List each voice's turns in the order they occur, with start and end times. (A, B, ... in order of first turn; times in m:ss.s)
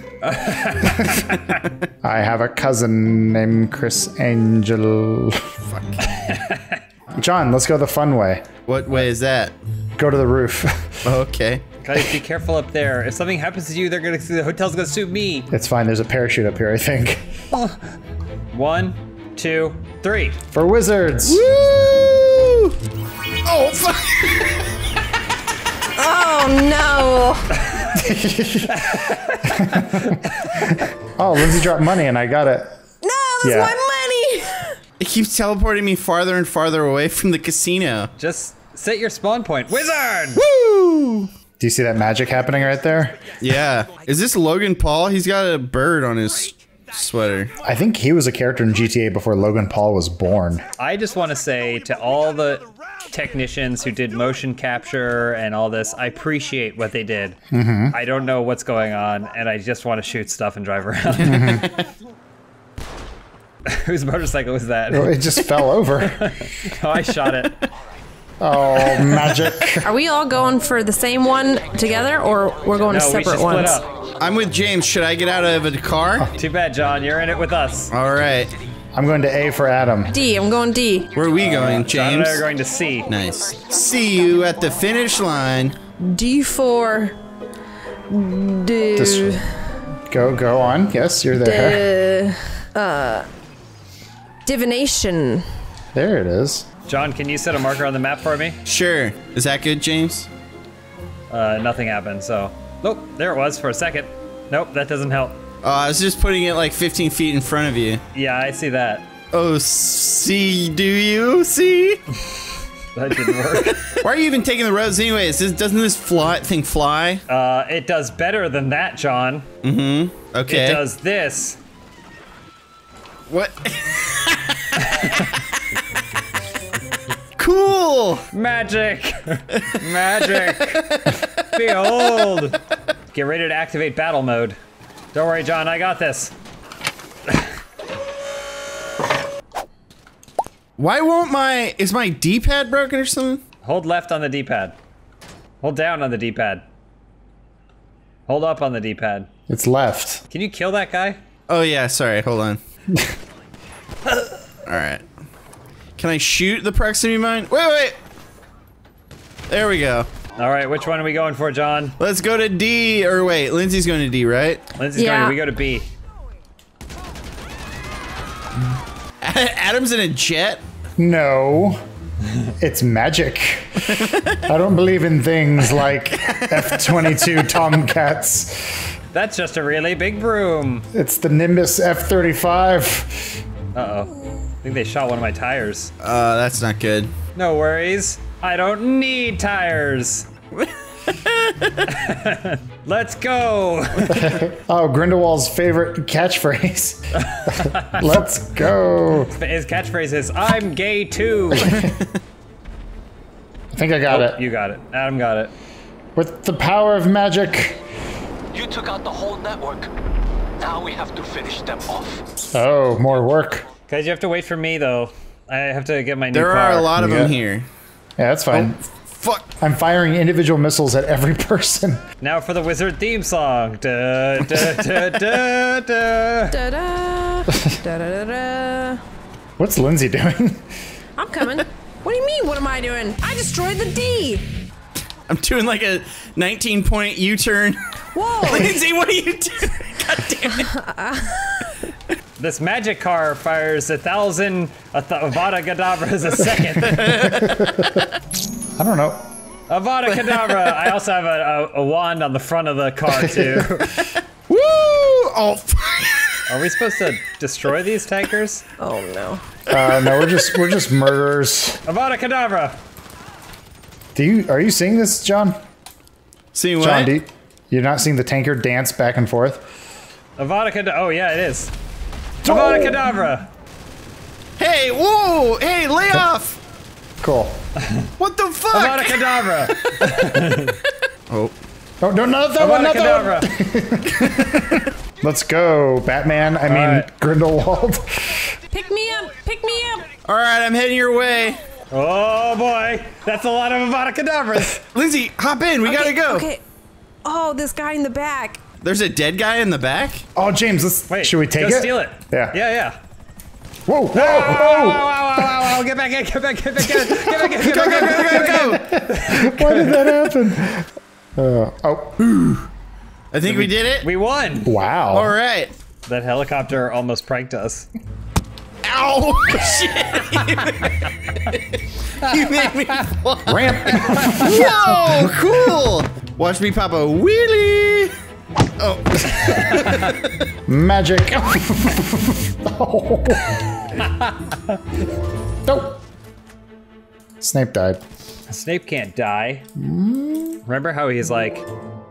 0:00.2-0:01.6 A
0:00.8-0:01.4 B
0:02.0-0:05.5 B
0:05.7-0:06.0 C
0:06.1-0:06.8 A
0:07.2-0:08.5 B
0:08.7-0:09.5 C
0:10.0-0:11.2 B
0:11.0-0:11.6 C
0:11.8-0:15.5 A
0:15.5-0:17.2 B
0:17.5-0:17.8 A
0:18.5-0:20.4 A
0:20.5-0:21.4 B
0:21.2-0:22.7 C
0:23.4-0:24.7 C
0:26.0-0:27.6 D
0:27.9-0:28.8 B
0:28.7-0:30.6 A
0:29.4-0:32.8 B
0:33.0-0:34.8 D
0:33.4-0:33.7 B
0:35.0-0:38.1 C
0:38.2-0:40.4 A
0:40.4-0:41.3 C
0:41.6-0:43.3 B
0:43.4-0:47.5 C
0:47.6-0:50.6 B
0:50.8-0:57.4 A
0:57.5-0:58.0 B
0:57.9-1:01.6 A
1:01.2-1:01.6 B
1:01.2-1:01.9 C
1:03.7-1:07.5 A
1:04.9-1:06.2 B
1:08.4-1:09.9 B
1:09.8-1:13.8 D
1:12.9-1:13.9 A
1:14.2-1:16.3 C
1:16.3-1:17.9 A
1:17.9-1:18.5 C
1:18.9-1:20.1 B
1:20.1-1:21.1 D
1:21.1-1:22.4 C
1:21.4-1:23.1 A
1:23.1-1:25.8 C
1:25.9-1:27.2 D
1:28.1-1:29.4 D
1:29.0-1:29.4 B
1:30.1-1:31.9 B
1:31.4-1:33.3 D
1:34.4-1:35.4 D
1:35.9-1:36.7 B
1:36.8-1:38.6 A
1:38.6-1:40.3 C
1:41.3-1:45.4 A
1:45.6-1:48.0 C
1:48.1-1:49.1 A
1:49.3-1:52.0 C
1:52.9-1:54.0 A
1:53.3-1:57.2 C
1:57.3-1:59.5 A
1:59.6-2:00.8 C
2:00.5-2:01.6 A
2:03.3-2:04.8 C
2:04.7-2:05.4 A
2:07.4-2:08.2 C
2:08.3-2:12.6 A
2:10.5-2:12.3 C
2:13.1-2:14.6 A
2:15.1-2:16.3 A
2:20.8-2:23.4 C
2:23.6-2:24.8 A
2:25.6-2:26.6 A
2:28.3-2:29.3 A
2:29.5-2:30.2 B
2:30.3-2:31.2 A
2:31.5-2:32.6 C
2:34.7-2:35.0 C
2:36.0-2:38.0 C
2:39.5-2:40.1 C
2:40.4-2:42.0 A
2:42.0-2:44.6 C
2:44.7-2:45.9 A
2:44.9-2:45.4 D
2:49.2-2:50.6 C
2:51.0-2:51.8 B
2:52.6-2:58.9 B
2:54.0-2:54.4 C
2:59.1-3:00.8 A
3:00.9-3:03.4 B
3:03.7-3:05.9 A
3:06.0-3:07.1 C
3:07.3-3:10.3 A
3:10.5-3:11.8 C
3:11.8-3:14.3 A
3:14.0-3:19.3 B
3:17.2-3:18.2 A
3:19.3-3:21.9 A
3:21.5-3:22.0 B
3:23.7-3:24.4 B
3:24.1-3:25.5 A
3:26.2-3:27.8 B
3:28.5-3:29.9 E
3:30.6-3:32.2 E
3:32.5-3:33.6 B
3:33.9-3:36.9 A
3:36.3-3:37.7 C
3:36.9-3:37.4 B
3:38.2-3:38.8 B
3:38.5-3:39.6 C
3:39.6-3:42.0 B
3:42.2-3:46.6 A
3:46.5-3:49.0 D
3:49.6-3:50.6 B
3:51.2-3:54.4 D
3:55.3-3:57.8 C
3:58.1-3:58.8 D
3:58.4-4:00.7 C
4:00.6-4:01.8 D
4:02.4-4:07.2 A
4:06.9-4:07.9 C
4:07.1-4:07.9 B
4:08.8-4:09.2 B
4:09.7-4:14.1 A
4:14.5-4:16.4 C
4:16.5-4:18.6 A
4:18.8-4:19.4 D
4:19.7-4:21.8 B
4:19.8-4:20.4 C
4:21.8-4:22.8 A
4:24.1-4:25.6 B
4:26.5-4:27.1 C
4:26.8-4:29.6 B
4:30.4-4:31.7 A
4:32.4-4:33.1 B
4:32.4-4:33.5 A
4:34.6-4:36.6 C
4:37.2-4:37.6 B
4:38.2-4:41.5 C
4:38.7-4:40.8 A
4:42.0-4:48.4 B
4:42.6-4:43.5 A
4:44.2-4:44.8 C
4:46.6-4:47.1 A
4:48.7-4:50.1 D
4:50.2-4:51.6 C
4:51.9-4:54.8 A
4:54.9-4:56.5 C
4:55.8-4:56.6 D
4:57.2-4:58.6 D
4:58.8-5:00.2 C
5:00.3-5:02.6 B
5:01.1-5:03.0 A
5:03.8-5:05.0 B
5:04.1-5:10.3 A
5:07.0-5:12.2 B
5:07.6-5:08.8 C
5:12.2-5:12.7 C
5:13.3-5:14.1 C
5:13.4-5:14.7 A
5:14.6-5:15.3 B
5:15.1-5:15.7 C
5:16.1-5:17.9 A
5:18.8-5:28.1 C
5:23.4-5:25.5 B
5:24.0-5:24.5 A
5:28.8-5:30.3 C
5:29.6-5:30.0 A
5:30.7-5:33.6 B
5:34.0-5:34.8 A
5:35.6-5:36.0 B
5:37.4-5:38.0 B
5:38.5-5:39.6 A
5:39.8-5:40.6 B
5:40.6-5:41.7 A